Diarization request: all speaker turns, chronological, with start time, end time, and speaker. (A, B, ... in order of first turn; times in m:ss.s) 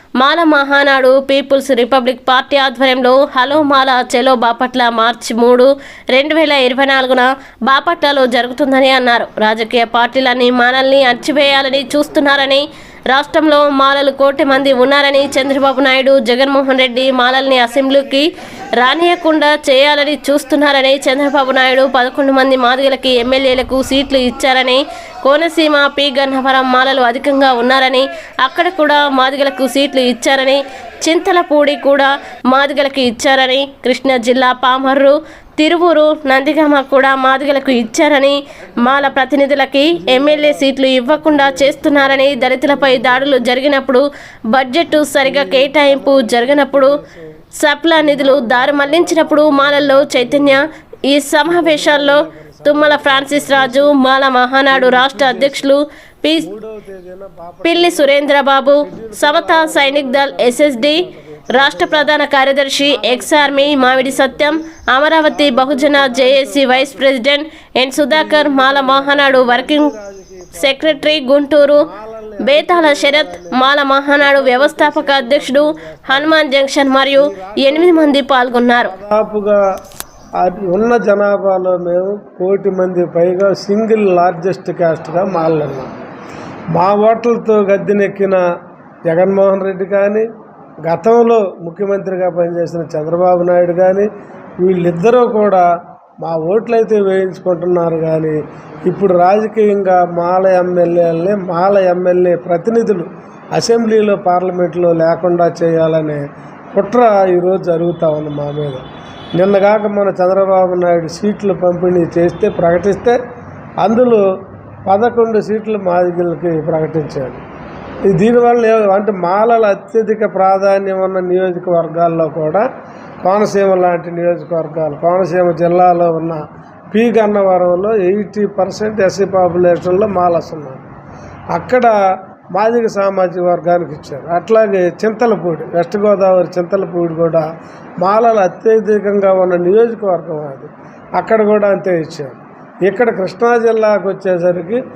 0:00.2-0:18.3 A
0:18.8-0:46.9 A
0:39.9-0:43.5 B
0:45.2-0:47.3 B
0:47.6-0:56.5 A
0:48.0-0:50.6 B
0:51.4-0:54.0 B
0:54.7-0:55.7 B
0:56.4-0:58.2 B
0:57.6-1:01.0 A
0:58.8-1:02.2 B
1:01.6-1:09.9 A
1:02.8-1:04.6 B
1:05.3-1:07.1 B
1:08.0-1:11.2 B
1:10.6-1:11.8 A
1:11.8-1:13.6 B
1:12.4-1:18.9 A
1:14.2-1:16.4 B
1:17.1-1:18.2 B
1:18.8-1:19.6 B
1:20.4-1:25.9 B
1:26.7-1:28.4 B
1:29.1-1:30.3 B
1:30.9-1:34.1 B
1:34.6-1:35.6 B
1:36.2-1:46.2 B
1:46.8-1:53.2 B
1:53.8-1:54.2 B
1:54.9-1:57.4 B
1:58.1-2:02.7 B
2:03.2-2:10.8 B
2:11.6-2:12.0 B
2:12.5-2:17.4 B
2:18.0-2:24.8 B